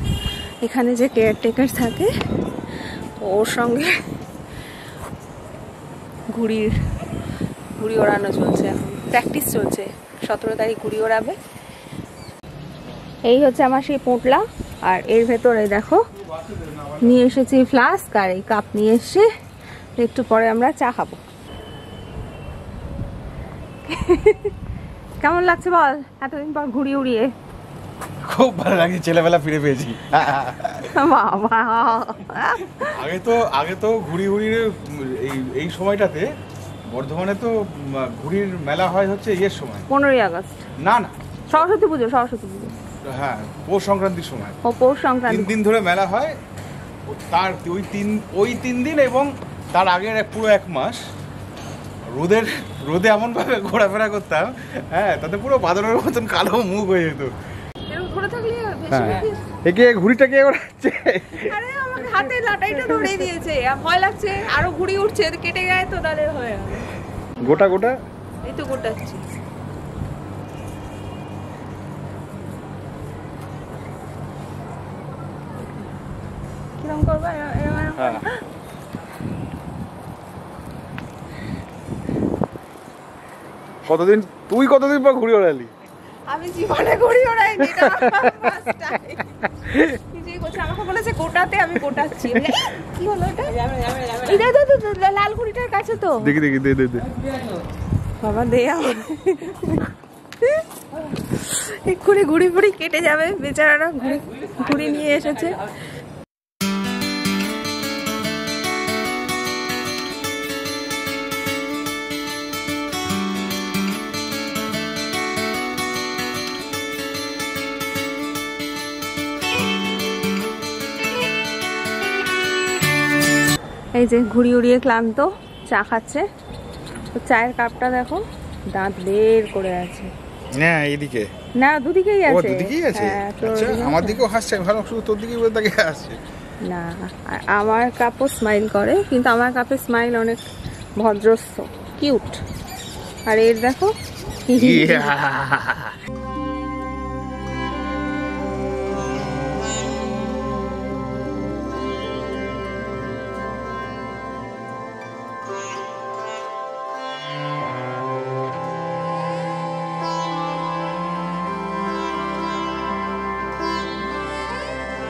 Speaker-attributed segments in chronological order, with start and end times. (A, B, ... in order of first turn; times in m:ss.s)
0:00.6-0:02.1 A
0:03.2-0:04.0 A
0:06.3-0:06.8 A
0:07.8-0:11.4 A
0:13.3-0:16.0 A
0:16.2-0:17.1 B
0:17.0-0:19.3 A
0:20.0-0:21.2 A
0:23.8-0:24.5 A
0:25.2-0:27.3 A
0:28.3-0:30.9 B
0:30.8-0:33.0 A
0:32.8-0:36.3 B
0:36.9-0:39.8 B
0:39.9-0:40.6 A
0:40.8-0:41.2 B
0:41.5-0:42.8 A
0:43.0-0:44.6 B
0:44.6-0:45.5 A
0:45.3-0:46.4 B
0:47.1-0:51.0 B
0:52.1-0:57.3 B
0:57.9-0:59.6 A
0:58.9-1:01.5 B
1:01.3-1:07.7 A
1:02.7-1:03.1 B
1:07.4-1:08.0 B
1:08.4-1:09.2 A
1:16.8-1:18.4 A
1:18.0-1:18.2 B
1:23.8-1:25.7 B
1:26.3-1:36.4 A
1:36.2-1:37.1 B
1:38.2-1:45.8 A
2:04.0-2:06.2 A
2:07.1-2:10.1 A
2:10.6-2:11.3 B
2:11.6-2:14.2 A
2:12.3-2:16.2 B
2:16.7-2:20.4 A
2:21.0-2:22.4 A
2:23.3-2:23.9 A
2:24.4-2:25.2 A
2:24.5-2:26.0 B